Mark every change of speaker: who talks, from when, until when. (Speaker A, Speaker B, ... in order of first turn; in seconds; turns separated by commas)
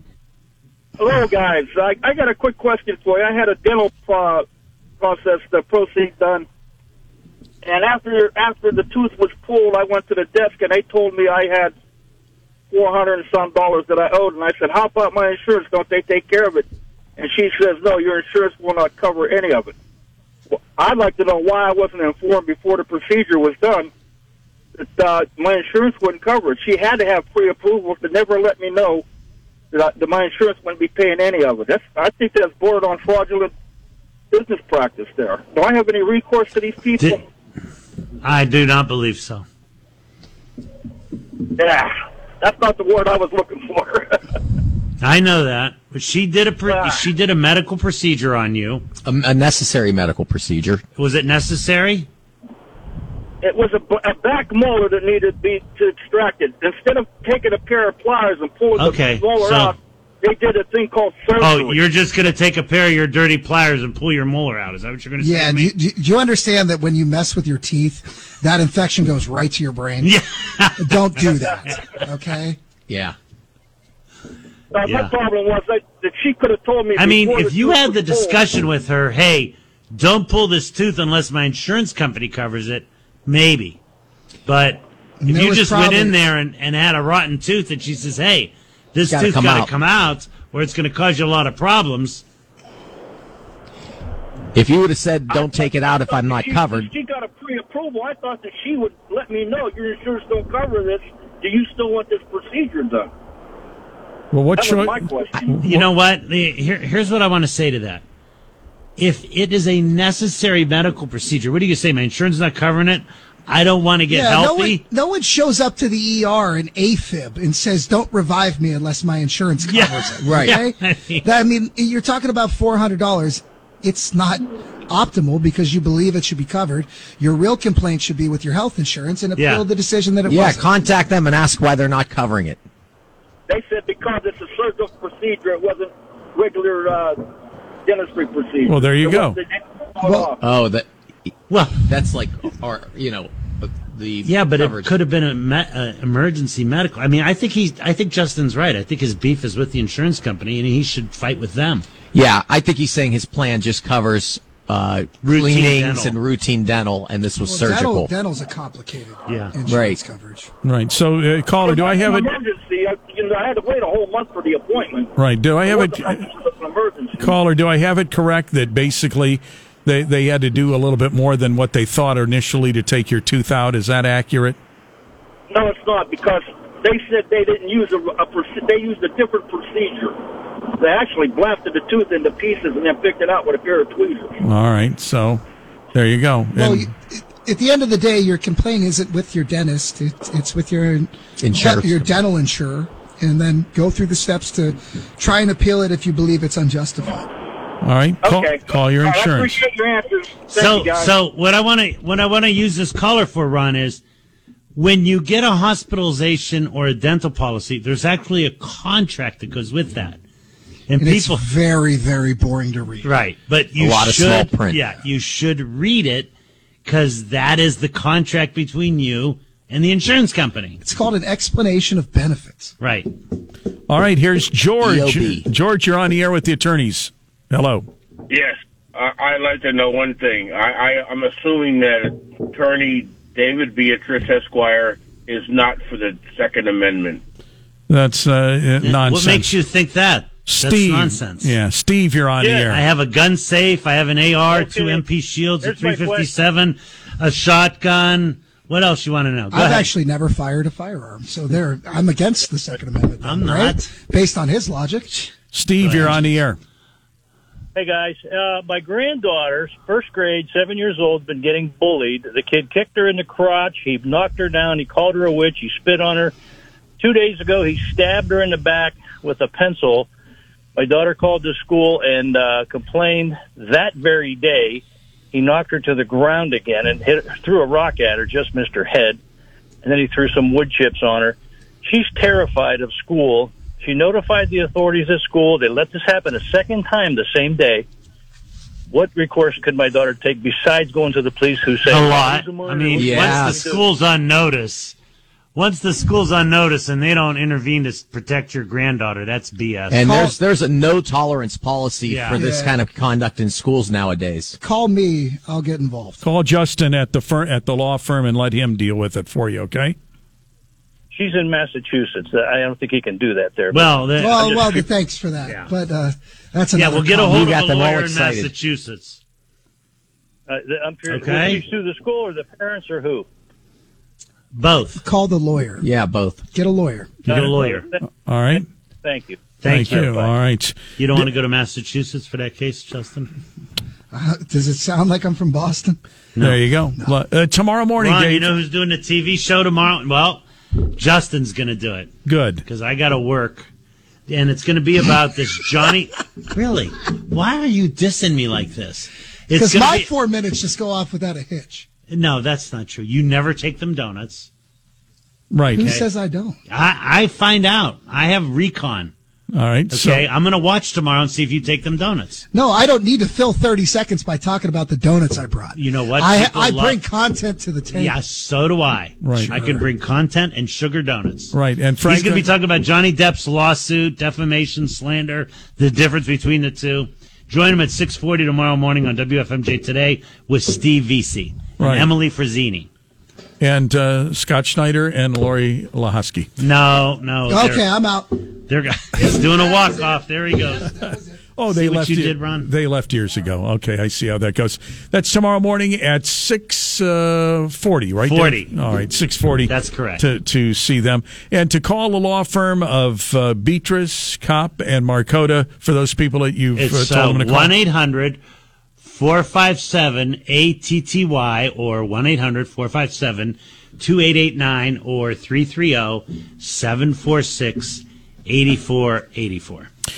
Speaker A: 1.0-4.5, Speaker A: 5.0-6.5, Speaker A: 7.6-11.7, Speaker A: 12.7-16.6, Speaker A: 17.2-19.7, Speaker A: 20.5-23.9, Speaker A: 24.8-29.0, Speaker A: 29.7-33.5, Speaker A: 34.3-37.2, Speaker B: 38.2-39.4, Speaker A: 41.5-44.2, Speaker B: 45.0-48.8, Speaker A: 46.6-47.0, Speaker C: 49.0-50.8, Speaker B: 51.0-52.1, Speaker A: 53.4-61.8, Speaker B: 58.8-59.7, Speaker B: 61.4-65.7, Speaker D: 65.2-70.1, Speaker B: 70.0-71.2, Speaker D: 70.8-72.6, Speaker C: 72.9-73.2, Speaker A: 74.7-78.5, Speaker B: 74.8-75.1, Speaker B: 76.9-83.8, Speaker B: 84.5-92.2, Speaker D: 85.2-86.1, Speaker C: 89.1-89.7, Speaker C: 94.5-96.9, Speaker A: 95.3-103.1, Speaker E: 104.3-105.9, Speaker A: 104.5-105.5, Speaker B: 105.6-108.0, Speaker B: 109.0-114.8, Speaker D: 114.1-130.7, Speaker B: 119.7-121.2, Speaker C: 120.2-120.6, Speaker B: 129.4-129.6, Speaker C: 130.2-132.6, Speaker A: 133.5-137.2, Speaker A: 137.8-140.4, Speaker E: 138.6-139.4, Speaker D: 140.0-140.3, Speaker C: 140.4-144.9, Speaker B: 141.5-141.8, Speaker B: 144.2-151.8, Speaker C: 152.1-158.1, Speaker B: 155.2-156.2, Speaker D: 157.4-160.5, Speaker B: 159.3-159.5, Speaker C: 159.7-160.0, Speaker E: 160.6-162.3, Speaker A: 161.6-165.1, Speaker E: 165.2-166.3, Speaker A: 165.7-167.3, Speaker E: 167.2-174.6, Speaker A: 175.5-184.4, Speaker E: 184.4-185.4, Speaker E: 185.9-186.9, Speaker D: 186.6-197.3, Speaker C: 191.4-192.1, Speaker E: 197.8-199.6, Speaker A: 198.2-201.2, Speaker B: 200.5-204.0, Speaker B: 204.7-210.2, Speaker B: 210.9-211.5, Speaker D: 211.0-213.1, Speaker B: 213.0-216.3, Speaker C: 213.8-214.8, Speaker B: 216.8-220.8, Speaker D: 220.8-222.7, Speaker B: 222.8-223.1, Speaker E: 223.9-227.8, Speaker C: 224.8-225.4, Speaker F: 228.3-237.2, Speaker E: 237.9-239.5, Speaker B: 238.8-241.5, Speaker E: 240.4-242.8, Speaker G: 242.4-242.7, Speaker B: 242.7-249.9, Speaker G: 244.5-245.0, Speaker G: 245.6-246.3, Speaker D: 249.5-255.3, Speaker B: 253.2-253.9, Speaker E: 255.5-256.6, Speaker B: 255.8-256.2, Speaker G: 257.7-266.3, Speaker G: 267.0-270.1, Speaker G: 270.7-279.2, Speaker G: 279.8-287.9, Speaker G: 288.9-293.8, Speaker B: 291.9-294.9, Speaker C: 292.9-293.8, Speaker B: 295.5-300.3, Speaker C: 299.9-304.6, Speaker D: 300.0-300.4, Speaker B: 302.1-302.4, Speaker D: 302.3-302.8, Speaker D: 304.6-306.2, Speaker E: 306.2-310.0, Speaker G: 311.1-313.9, Speaker B: 313.7-314.9, Speaker D: 314.2-317.5, Speaker B: 315.4-315.7, Speaker B: 316.7-319.2, Speaker C: 317.1-318.5, Speaker G: 320.5-323.2, Speaker B: 321.1-321.6, Speaker B: 324.5-325.0, Speaker D: 325.0-325.8, Speaker C: 325.8-326.4, Speaker D: 326.5-327.2, Speaker B: 327.2-327.9, Speaker G: 327.3-328.0, Speaker E: 328.2-328.7, Speaker G: 328.5-329.6, Speaker B: 329.6-330.3, Speaker E: 329.6-331.3, Speaker B: 331.0-333.3, Speaker D: 334.1-336.0, Speaker E: 336.4-338.6, Speaker B: 338.0-340.4, Speaker B: 340.9-342.1, Speaker E: 342.2-342.6, Speaker B: 342.6-343.7, Speaker B: 344.3-350.1, Speaker D: 349.5-351.9, Speaker B: 352.1-354.5, Speaker E: 355.5-355.9, Speaker D: 355.7-356.6, Speaker B: 355.8-356.0, Speaker B: 356.7-359.1, Speaker E: 359.5-360.3, Speaker B: 359.9-362.4, Speaker D: 362.5-368.1, Speaker B: 365.7-367.0, Speaker B: 367.9-382.9, Speaker E: 369.2-369.6, Speaker D: 369.5-369.8, Speaker E: 371.5-372.5, Speaker E: 381.8-382.1, Speaker E: 383.6-386.5, Speaker B: 386.6-387.9, Speaker D: 387.5-388.3, Speaker B: 388.7-391.0, Speaker D: 389.2-391.2, Speaker E: 391.6-407.7, Speaker B: 391.7-392.7, Speaker B: 398.2-398.7, Speaker B: 399.7-400.2, Speaker B: 406.7-408.4, Speaker B: 409.0-419.9